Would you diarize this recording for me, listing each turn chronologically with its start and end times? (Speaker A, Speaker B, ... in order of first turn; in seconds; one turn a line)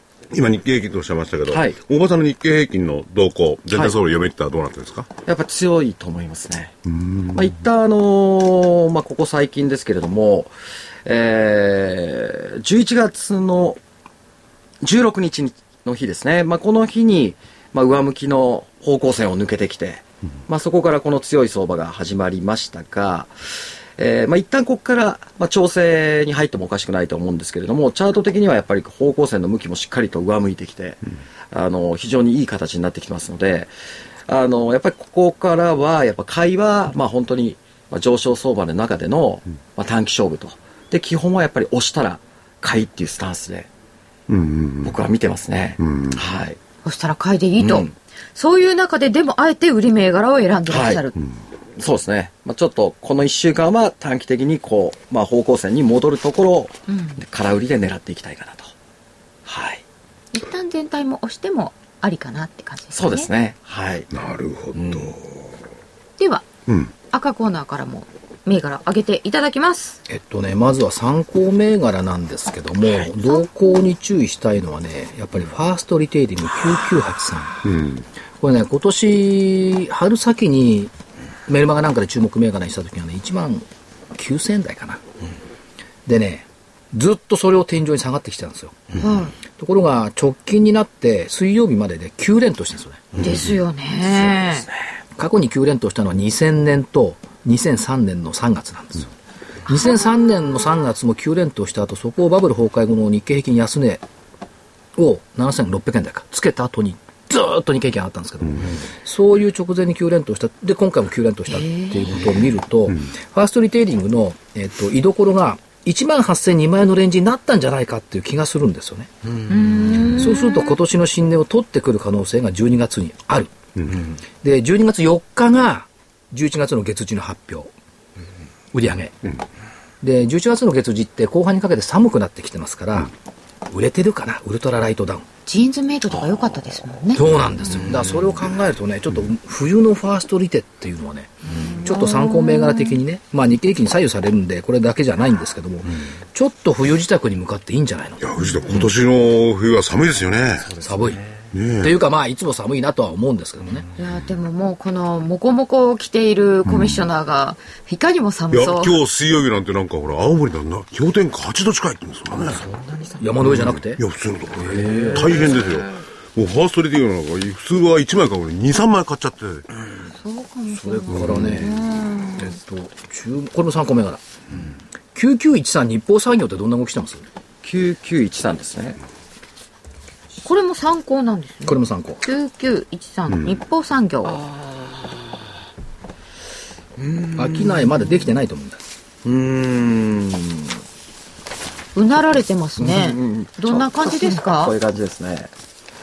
Speaker A: 0.3-5.1
Speaker B: 1.5-1.8
Speaker B: 3.7-4.0
Speaker B: 5.2-6.8
Speaker A: 6.9-7.5
Speaker B: 7.3-10.5
Speaker B: 11.0-13.8
Speaker B: 14.8-23.3
Speaker B: 24.0-31.0
Speaker B: 31.5-33.7
Speaker B: 34.3-43.7
Speaker A: 44.3-44.9
Speaker B: 44.8-46.6
Speaker A: 45.8-46.2
Speaker C: 46.8-51.2
Speaker B: 47.6-47.9
Speaker B: 50.7-51.0
Speaker B: 51.8-58.7
Speaker C: 56.9-57.2
Speaker B: 59.5-59.8
Speaker C: 60.3-63.3
Speaker B: 62.9-64.1
Speaker A: 64.1-65.3
Speaker B: 64.7-65.1
Speaker C: 66.2-66.5
Speaker A: 66.7-66.9
Speaker C: 67.1-70.0
Speaker D: 70.1-77.6
Speaker C: 73.2-73.5
Speaker A: 77.6-78.0
Speaker D: 78.4-80.9
Speaker D: 81.5-85.0
Speaker D: 86.0-88.8
Speaker C: 89.0-89.3
Speaker D: 89.5-93.1
Speaker B: 93.1-94.8
Speaker C: 93.2-94.7
Speaker D: 95.2-99.1
Speaker D: 99.7-104.0
Speaker C: 99.7-100.6
Speaker D: 105.0-119.1
Speaker C: 111.5-112.3
Speaker C: 119.5-120.8
Speaker D: 120.1-123.5
Speaker D: 124.4-127.7
Speaker D: 128.7-129.2
Speaker D: 130.0-133.1
Speaker D: 133.7-135.2
Speaker C: 135.4-137.6
Speaker D: 137.1-148.3
Speaker B: 137.8-138.2
Speaker B: 141.5-141.8
Speaker C: 141.6-143.0
Speaker A: 148.2-150.7
Speaker B: 150.6-151.5
Speaker D: 150.8-151.2
Speaker A: 151.5-151.9
Speaker D: 151.8-153.8
Speaker C: 154.0-159.0
Speaker A: 156.7-157.0
Speaker A: 158.5-162.6
Speaker B: 162.4-163.3
Speaker D: 163.2-164.0
Speaker A: 163.4-169.6
Speaker D: 164.6-165.4
Speaker B: 164.7-165.8
Speaker C: 170.1-172.5
Speaker D: 170.8-171.7
Speaker A: 171.2-171.6
Speaker D: 172.4-174.2
Speaker D: 175.1-177.2
Speaker B: 177.6-179.0
Speaker C: 180.4-184.4
Speaker D: 181.7-182.2
Speaker A: 183.3-183.5
Speaker B: 184.3-185.2
Speaker B: 187.0-187.9
Speaker D: 187.3-188.8
Speaker B: 189.2-190.8
Speaker C: 191.9-194.7
Speaker B: 192.8-195.5